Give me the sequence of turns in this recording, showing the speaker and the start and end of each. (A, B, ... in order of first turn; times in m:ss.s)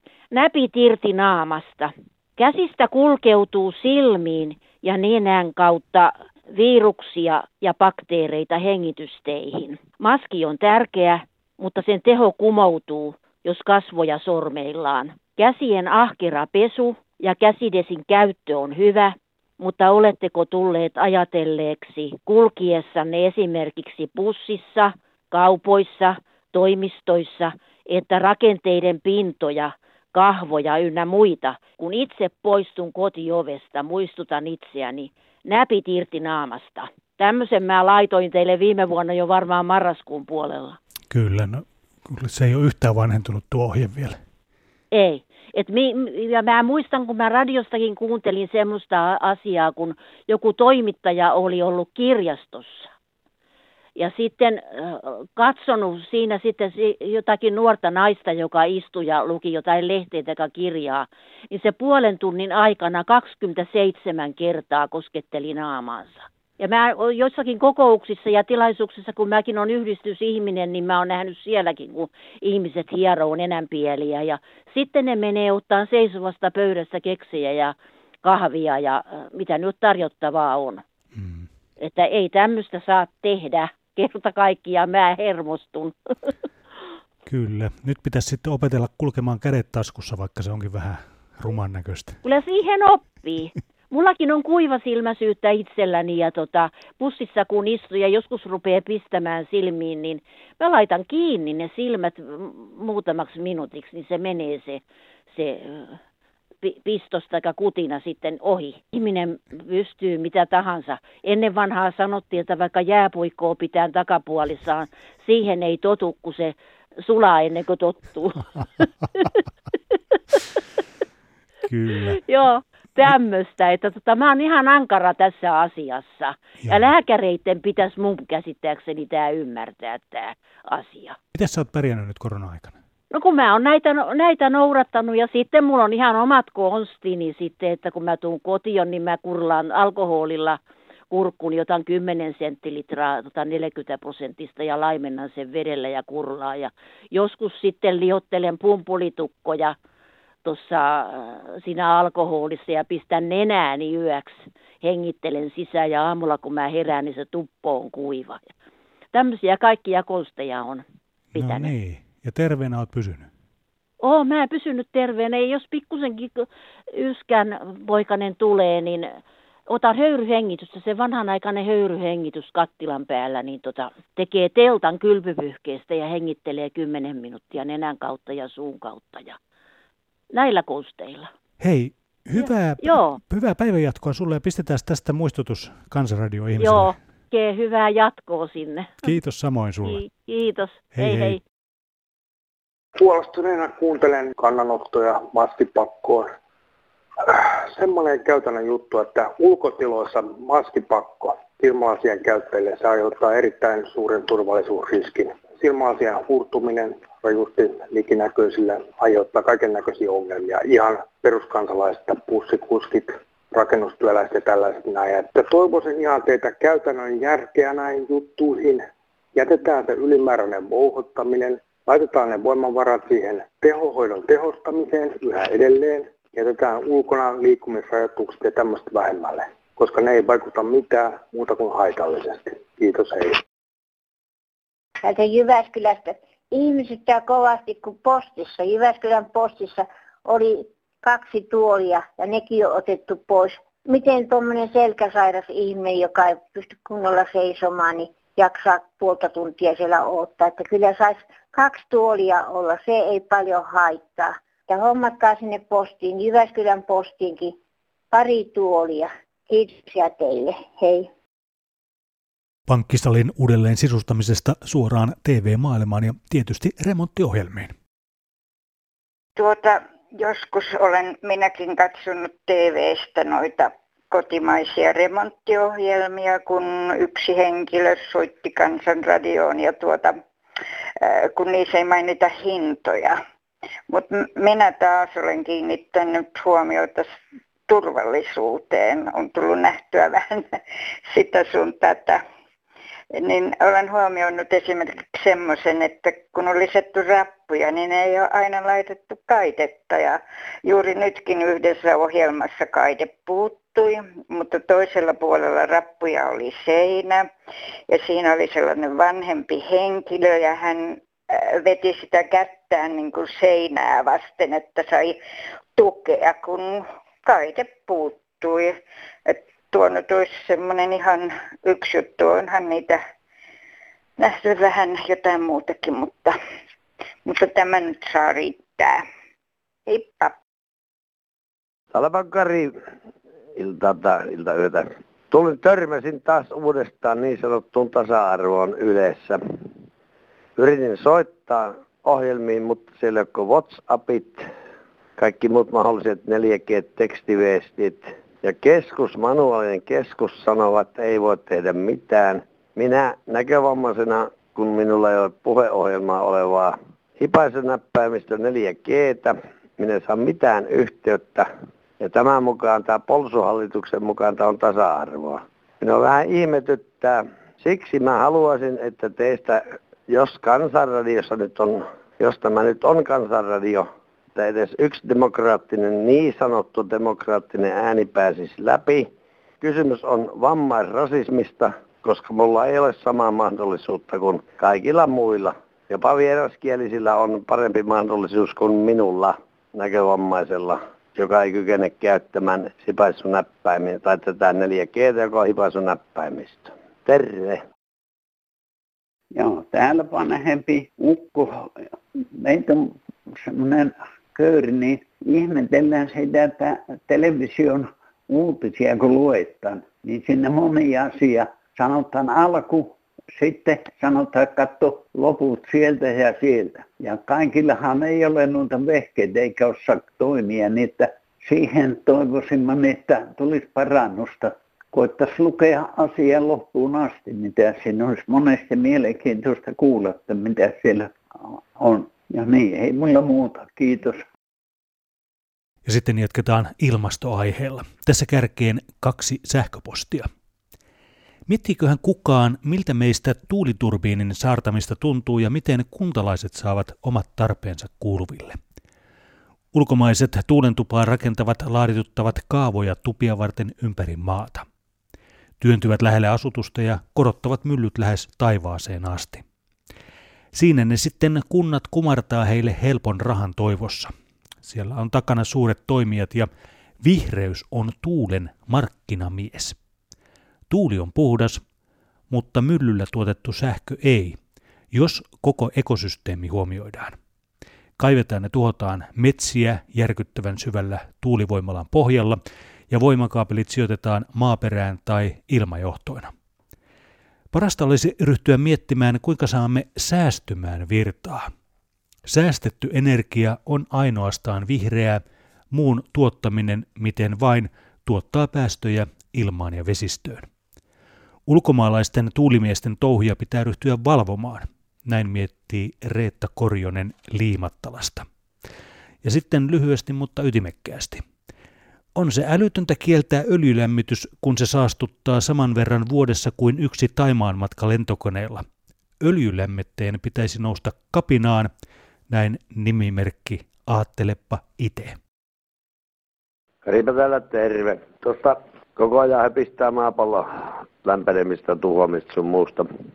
0:00.3-0:40.8 A
0:41.1-0:44.2 B
0:44.9-0:52.9 A
0:54.0-1:20.8 A
1:21.1-1:21.5 B
1:21.8-1:25.9 A
1:27.2-1:32.2 B
1:32.2-1:44.8 A
1:45.3-1:46.0 A
1:46.6-1:58.5 A
2:01.7-2:02.2 B
2:02.2-2:11.2 A
2:06.6-2:06.9 B
2:11.3-2:12.8 B
2:13.1-2:20.6 A
2:21.1-2:29.7 A
2:30.4-2:38.4 A
2:39.1-2:41.7 A
2:41.3-2:43.3 B
2:44.0-2:59.4 A
3:00.3-3:01.3 A
3:01.6-3:07.0 B
3:02.3-3:03.2 A
3:06.6-3:09.2 A
3:09.0-3:10.0 B
3:09.8-3:11.4 A
3:10.9-3:11.4 B
3:13.0-3:16.4 C
3:17.3-3:53.4 C
3:55.0-4:17.6 D
4:18.1-4:21.1 D
4:22.7-4:27.7 B
4:29.4-4:40.2 E
4:41.0-4:43.2 E
4:43.9-4:47.1 E
4:47.7-4:52.2 E
4:53.2-5:07.2 E
5:07.9-5:15.2 E
5:15.8-5:23.0 E
5:24.2-5:26.4 E
5:27.2-5:29.0 E
5:29.9-5:30.3 E
5:31.9-5:32.7 F
5:33.6-5:39.4 F
5:40.6-5:44.4 F
5:45.2-6:01.5 F
6:02.0-6:19.1 F
6:19.6-6:37.6 F
6:39.3-6:41.7 G
6:42.4-7:11.1 G
7:11.8-7:14.2 G
7:15.8-7:20.3 B
7:21.5-7:28.6 B
7:29.7-7:34.6 B
7:35.6-7:39.4 B
7:40.5-7:44.1 B
7:44.6-7:46.5 B
7:47.0-7:49.8 B
7:50.7-7:51.6 B
7:52.3-7:54.4 B
7:54.9-7:57.2 B
7:58.0-8:02.4 B
8:02.9-8:06.3 B
8:07.5-8:11.5 B
8:12.2-8:20.5 B
8:21.5-8:28.2 B
8:29.2-8:31.2 B
8:32.1-8:38.6 B
8:39.2-8:41.7 B
8:42.3-8:45.2 B
8:46.8-8:52.9 F